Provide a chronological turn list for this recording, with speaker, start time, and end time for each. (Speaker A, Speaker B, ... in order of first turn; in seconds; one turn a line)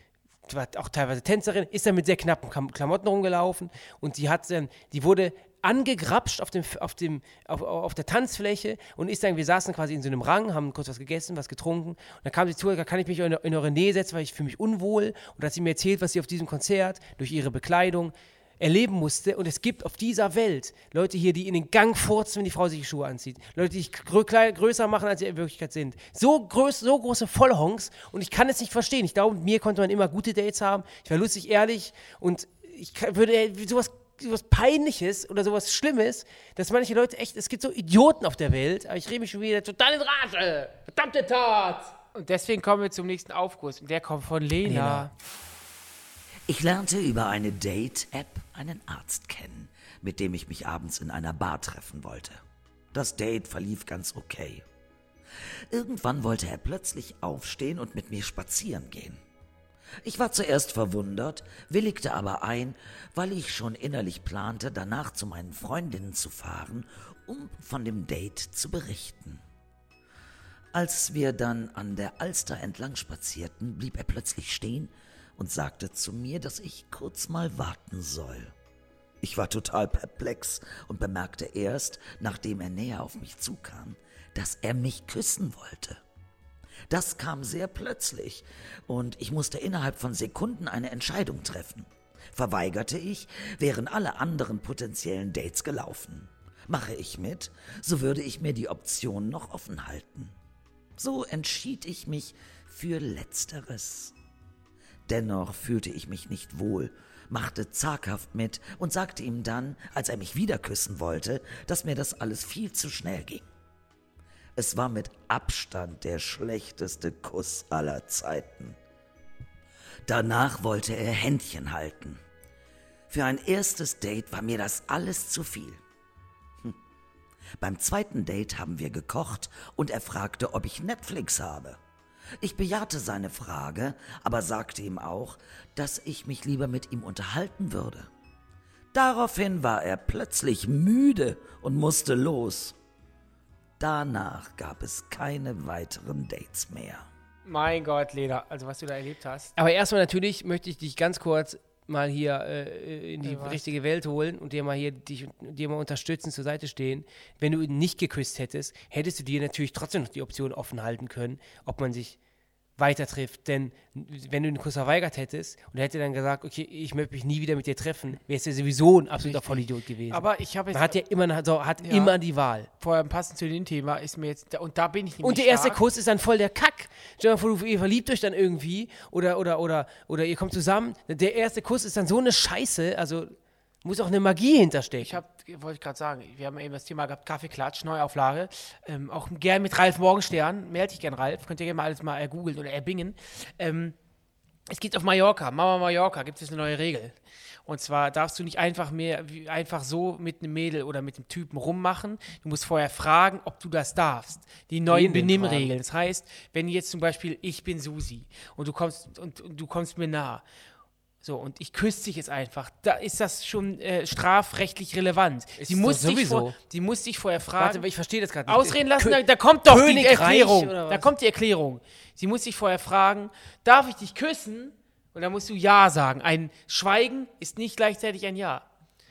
Speaker A: 0.5-41.9
Speaker B: 42.1-45.1
Speaker A: 44.6-45.1
Speaker C: 46.5-52.4
Speaker C: 52.9-54.6
Speaker C: 55.7-59.2
Speaker C: 60.0-69.4
Speaker C: 70.7-78.5
Speaker C: 79.2-86.0
Speaker C: 86.9-100.3
Speaker C: 101.0-104.1
Speaker C: 105.1-113.5
Speaker C: 114.5-118.8
Speaker C: 120.0-122.2
Speaker C: 123.1-125.8
Speaker C: 127.6-131.8
Speaker C: 132.4-138.1
Speaker C: 138.9-142.8
Speaker C: 143.8-147.1
Speaker B: 147.4-149.5
Speaker A: 149.6-162.2
Speaker B: 153.2-153.6
Speaker A: 162.8-172.7
Speaker B: 169.2-171.0
Speaker B: 171.8-172.1
Speaker B: 172.7-175.8
Speaker A: 175.2-185.2
Speaker B: 185.0-193.9
Speaker B: 194.7-197.1
Speaker B: 197.7-210.4
Speaker A: 204.9-205.7
Speaker B: 211.2-217.8
Speaker A: 215.6-216.5
Speaker A: 217.6-221.1
Speaker B: 218.5-228.6